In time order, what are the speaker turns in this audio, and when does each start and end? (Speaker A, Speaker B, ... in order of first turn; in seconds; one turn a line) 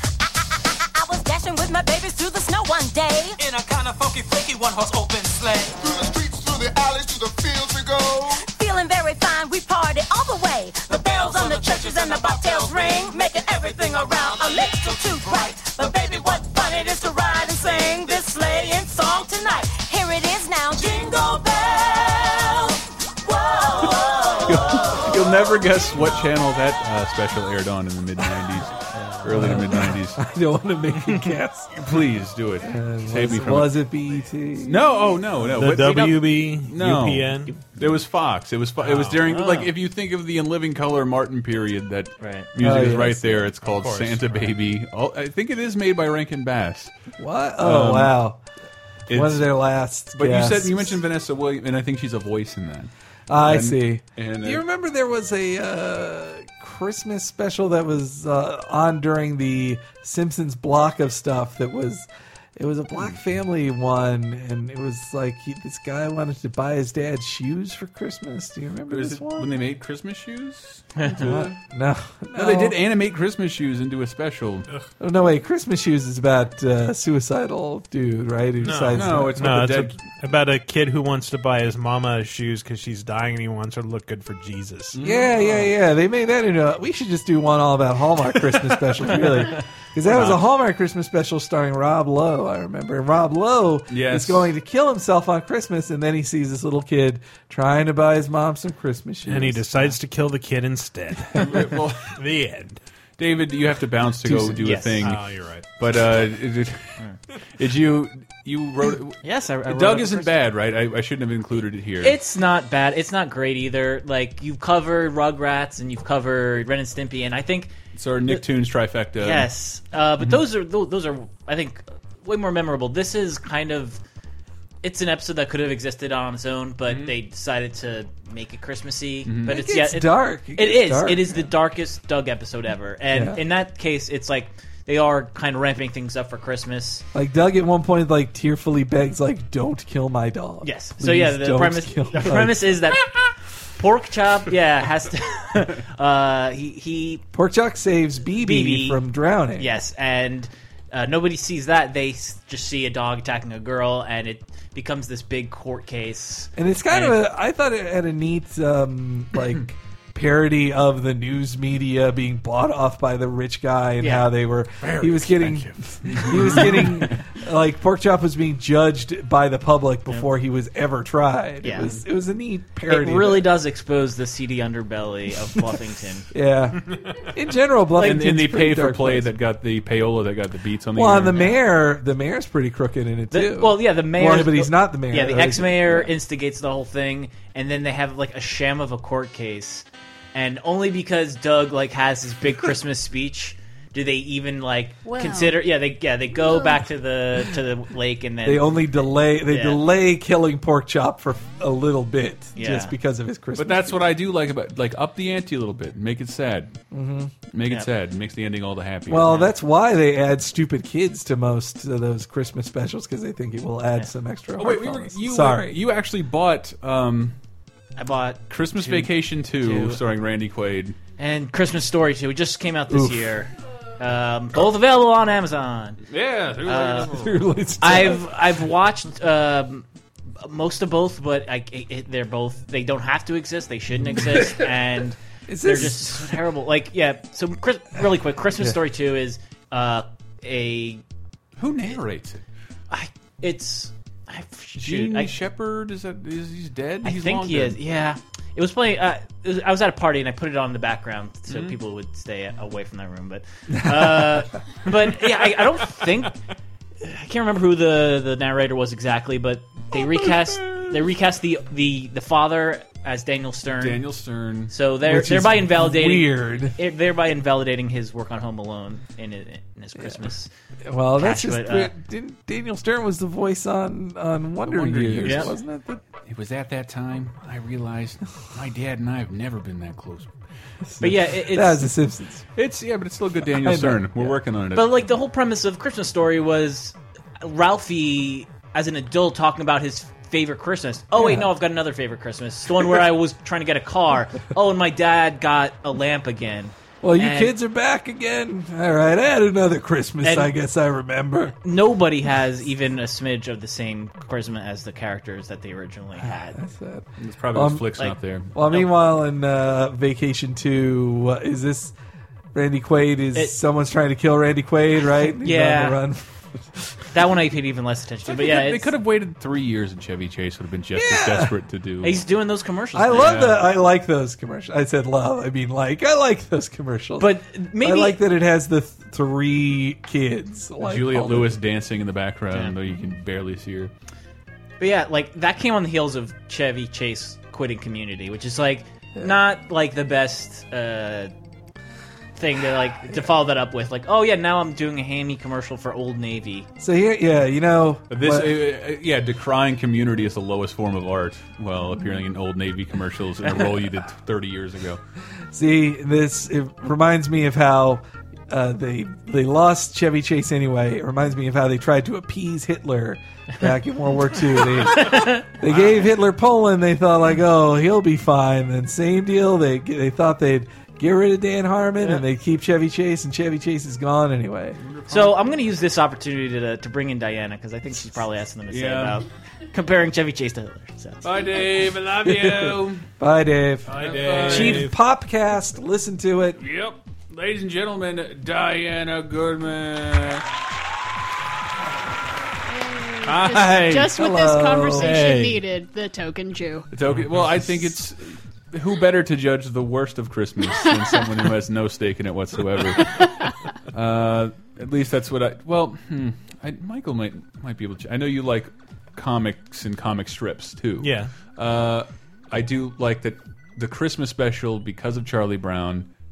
Speaker A: 0.9-3.4
Speaker B: 5.8-8.5
Speaker A: 8.5-21.6
Speaker C: 24.4-30.2
Speaker D: 28.9-29.3
Speaker E: 29.3-31.7
Speaker C: 31.7-33.8
Speaker E: 32.6-34.8
Speaker C: 34.6-46.9
Speaker F: 35.4-37.6
Speaker F: 38.8-39.2
Speaker D: 39.2-39.7
Speaker D: 42.2-42.5
Speaker E: 42.6-43.5
Speaker F: 43.6-44.6
Speaker E: 47.2-48.4
Speaker C: 47.6-48.1
Speaker C: 49.1-49.5
Speaker E: 49.1-51.0
Speaker C: 50.1-54.6
Speaker E: 53.3-69.5
Speaker C: 68.9-71.5
Speaker D: 71.0-71.3
Speaker E: 71.2-72.8
Speaker C: 72.3-74.7
Speaker E: 75.0-79.4
Speaker F: 78.6-85.0
Speaker C: 78.9-80.0
Speaker C: 84.9-85.4
Speaker E: 85.0-99.7
Speaker C: 90.0-90.4
Speaker C: 93.9-94.5
Speaker F: 99.2-102.8
Speaker C: 101.3-102.1
Speaker C: 103.2-105.3
Speaker E: 104.2-104.6
Speaker D: 104.6-105.0
Speaker F: 105.0-105.7
Speaker C: 105.8-106.9
Speaker C: 107.6-112.2
Speaker D: 109.2-110.3
Speaker D: 112.0-117.7
Speaker C: 117.9-119.5
Speaker D: 119.2-124.0
Speaker D: 124.8-137.0
Speaker C: 126.8-127.1
Speaker C: 129.2-129.6
Speaker E: 129.5-131.5
Speaker E: 133.1-133.4
Speaker E: 137.1-142.6
Speaker D: 140.6-143.1
Speaker D: 143.8-147.2
Speaker E: 147.3-149.7
Speaker D: 148.4-149.0
Speaker D: 149.6-157.2
Speaker E: 156.6-173.5
Speaker D: 164.0-164.3
Speaker C: 164.8-167.1
Speaker D: 171.6-171.9
Speaker D: 172.9-176.3
Speaker E: 176.3-179.3
Speaker C: 178.0-181.5
Speaker E: 180.9-186.1
Speaker D: 183.3-198.9
Speaker G: 195.0-195.6
Speaker G: 196.4-196.8
Speaker E: 198.4-203.9
Speaker D: 199.4-199.8
Speaker D: 202.6-202.9
Speaker C: 203.5-206.7
Speaker E: 206.9-207.3
Speaker C: 207.5-209.4
Speaker E: 209.1-215.7
Speaker C: 214.6-217.3
Speaker D: 218.0-220.0
Speaker C: 218.5-221.0
Speaker D: 221.2-226.0
Speaker E: 222.9-223.3
Speaker C: 226.1-227.4
Speaker D: 226.6-227.2
Speaker E: 227.1-228.2
Speaker D: 227.8-241.0
Speaker E: 235.5-236.3
Speaker C: 241.6-242.4
Speaker D: 242.9-245.3
Speaker C: 244.8-247.8
Speaker D: 247.0-256.3
Speaker C: 251.5-251.8
Speaker D: 257.0-264.0
Speaker C: 263.8-264.7
Speaker D: 264.7-270.5
Speaker E: 265.0-266.8
Speaker E: 270.8-276.0
Speaker D: 271.2-271.9
Speaker C: 274.6-275.6
Speaker D: 275.2-275.5
Speaker C: 276.2-280.3
Speaker E: 280.9-282.4
Speaker D: 281.0-281.9
Speaker C: 282.5-285.1
Speaker E: 283.4-284.3
Speaker D: 284.7-297.5
Speaker E: 291.1-291.5
Speaker E: 297.0-301.5
Speaker D: 300.2-300.5
Speaker D: 301.6-306.6
Speaker E: 306.2-307.9
Speaker C: 307.2-308.5
Speaker E: 308.5-311.9
Speaker E: 312.5-316.9
Speaker D: 315.4-316.0
Speaker D: 317.1-318.9
Speaker C: 318.3-322.2
Speaker E: 320.9-321.5
Speaker D: 322.0-323.5
Speaker E: 322.9-331.6
Speaker C: 323.1-323.7
Speaker D: 327.2-328.2
Speaker C: 330.8-333.9
Speaker D: 334.8-341.3
Speaker D: 342.4-346.7
Speaker E: 346.8-348.6
Speaker C: 348.1-355.0
Speaker E: 355.5-374.8
Speaker D: 364.9-365.4
Speaker C: 374.8-375.6
Speaker D: 375.1-381.4
Speaker C: 378.7-379.2
Speaker C: 381.2-383.0
Speaker E: 382.2-386.6
Speaker C: 383.9-384.9
Speaker F: 383.9-384.9
Speaker C: 386.6-390.4
Speaker G: 392.7-396.9
Speaker C: 393.2-394.1
Speaker E: 394.1-395.2
Speaker C: 395.0-395.4
Speaker F: 395.0-395.6
Speaker C: 396.9-403.3
Speaker F: 397.1-397.3
Speaker C: 403.9-416.1
Speaker F: 411.0-411.3